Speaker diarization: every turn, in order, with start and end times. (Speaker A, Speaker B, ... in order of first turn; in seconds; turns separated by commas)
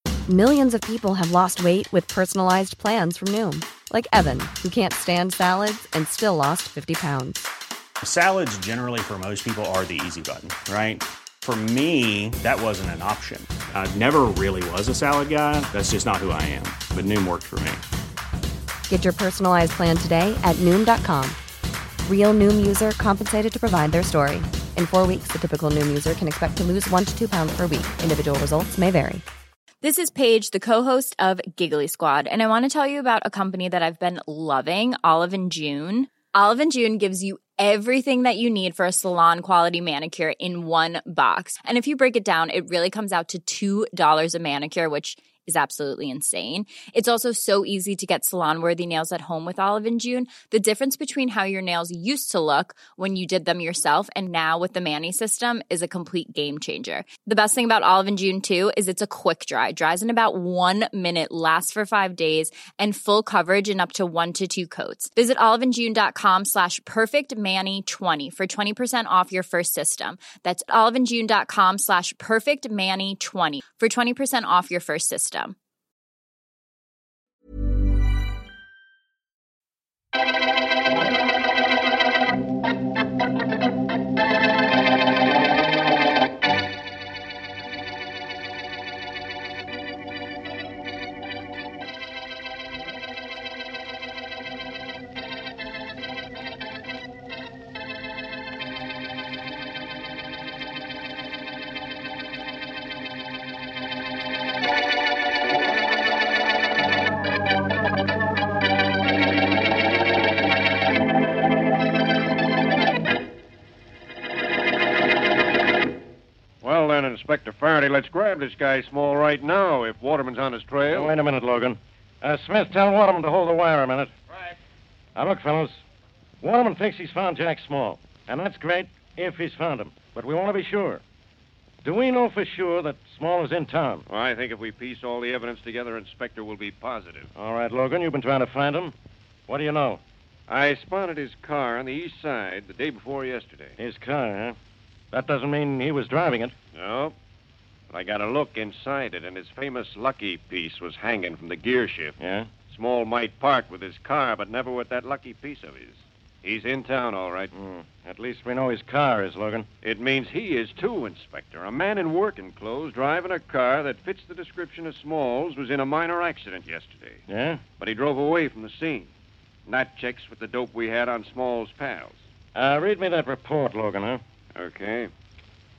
Speaker A: 0.3-7.4, Speaker B: 8.0-17.8, Speaker A: 18.9-21.4, Speaker A: 22.0-29.2, Speaker C: 29.8-75.5, Speaker D: 116.6-121.1, Speaker E: 120.9-124.1, Speaker E: 125.1-125.8, Speaker E: 126.4-131.0, Speaker E: 131.8-134.0, Speaker D: 134.1-137.3, Speaker E: 137.3-138.9, Speaker E: 139.5-140.0, Speaker D: 140.5-143.8, Speaker E: 143.8-144.6, Speaker E: 145.1-146.5, Speaker D: 146.7-147.1, Speaker D: 147.9-152.2, Speaker E: 152.2-152.5, Speaker D: 152.7-157.5, Speaker E: 157.5-159.7, Speaker D: 159.8-167.2, Speaker E: 167.3-167.6, Speaker D: 167.8-169.1, Speaker D: 169.7-172.2, Speaker E: 172.5-174.2, Speaker D: 174.5-175.1